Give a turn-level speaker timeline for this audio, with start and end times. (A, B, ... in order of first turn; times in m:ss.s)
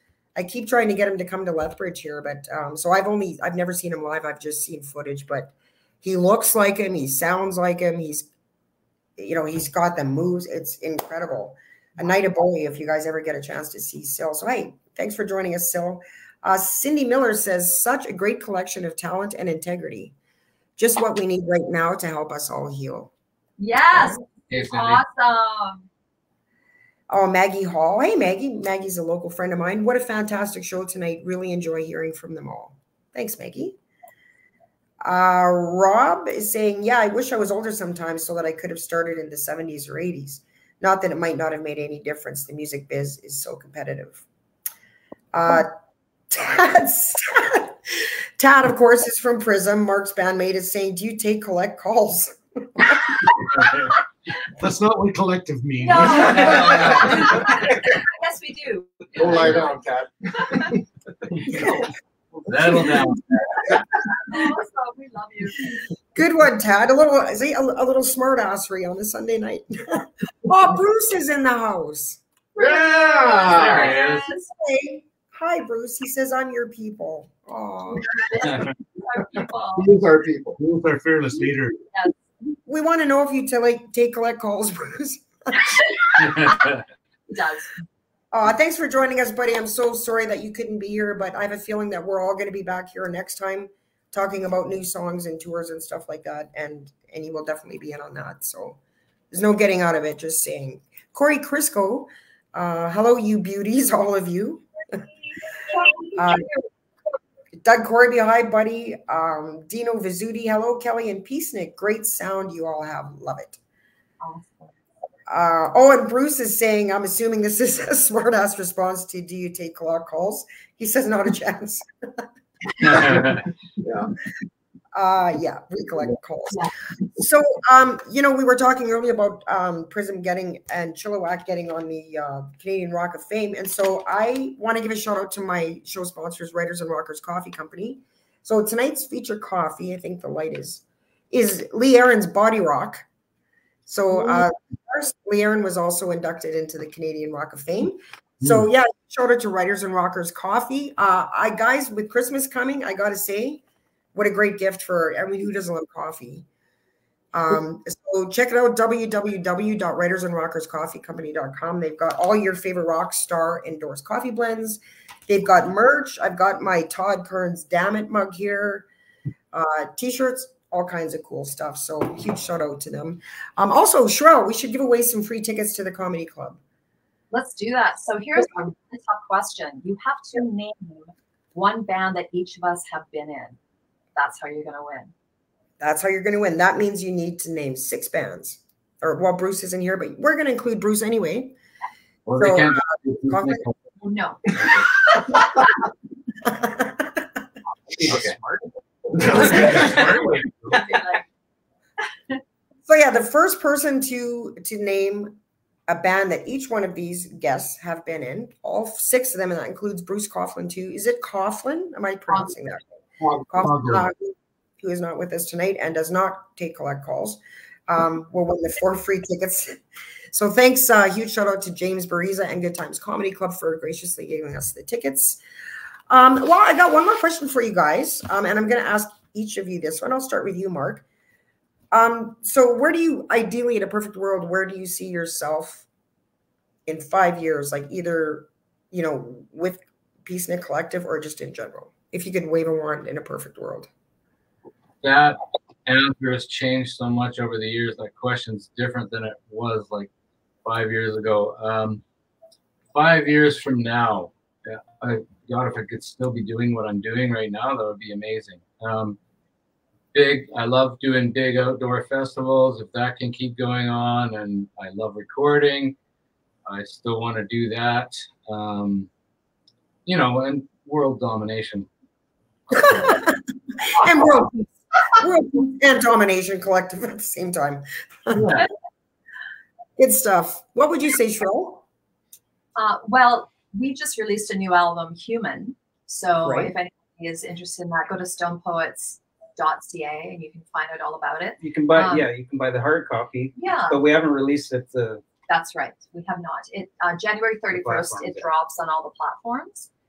0:00.4-0:08.3 A
0:09.2-0:20.1 A
0:20.8-0:23.1 A
0:23.6-0:25.9 B
0:23.9-0:24.2 A
0:24.5-0:25.0 C
0:27.1-0:33.8 A
0:35.0-0:44.2 A
0:45.3-0:45.7 A
0:46.3-0:53.3 A
0:53.6-0:53.9 C
0:54.6-0:57.5 D
0:55.8-0:59.8 B
0:56.4-0:57.1 C
0:56.5-0:57.0 E
0:59.1-1:00.8 E
1:00.3-1:00.7 B
1:01.5-1:01.8 A
1:02.4-1:03.2 C
1:02.7-1:03.0 A
1:04.3-1:05.8 B
1:06.1-1:12.2 A
1:12.6-1:14.5 B
1:12.6-1:13.9 E
1:13.4-1:14.3 C
1:14.6-1:18.1 A
1:18.0-1:19.9 B
1:19.7-1:20.6 E
1:20.6-1:21.8 D
1:21.9-1:22.2 B
1:22.7-1:26.4 A
1:26.2-1:26.8 C
1:27.3-1:27.7 B
1:28.3-1:38.8 A
1:39.3-1:44.7 A
1:45.3-1:46.7 B
1:46.2-1:46.5 A
1:47.6-1:53.6 A
1:54.2-1:54.7 B
1:55.3-2:02.2 A
2:02.8-2:03.4 C
2:03.8-2:04.1 E
2:04.9-2:23.0 A
2:23.9-2:33.6 A
2:34.1-2:36.4 A
2:37.3-2:48.9 A
2:49.5-2:56.6 A
2:57.3-3:03.6 B
3:04.2-3:05.1 B
3:05.8-3:11.6 A
3:12.2-3:13.7 C
3:12.4-3:13.6 A
3:14.0-3:15.7 B
3:16.4-3:17.3 A
3:18.0-3:18.6 F
3:18.1-3:18.4 C
3:19.2-3:20.8 D
3:19.3-3:19.9 F
3:19.4-3:20.1 B
3:20.7-3:21.2 B
3:22.9-3:32.8 A
3:33.4-3:34.1 D
3:33.5-3:39.8 A
3:40.3-3:45.4 A
3:46.1-3:51.0 A
3:51.9-3:55.9 A
3:56.9-4:03.9 A
4:05.0-4:10.1 C
4:10.6-4:12.0 C
4:12.9-4:19.2 C
4:20.1-4:26.0 C
4:26.7-4:29.1 C
4:30.1-4:31.9 C
4:32.7-4:33.2 C
4:32.7-4:38.6 A
4:38.4-4:38.6 E
4:40.0-4:41.8 A
4:42.8-4:52.3 B
4:46.4-4:46.7 A
4:51.6-4:55.2 F
4:53.6-4:54.0 B
4:55.5-4:59.9 B
4:57.7-4:58.4 F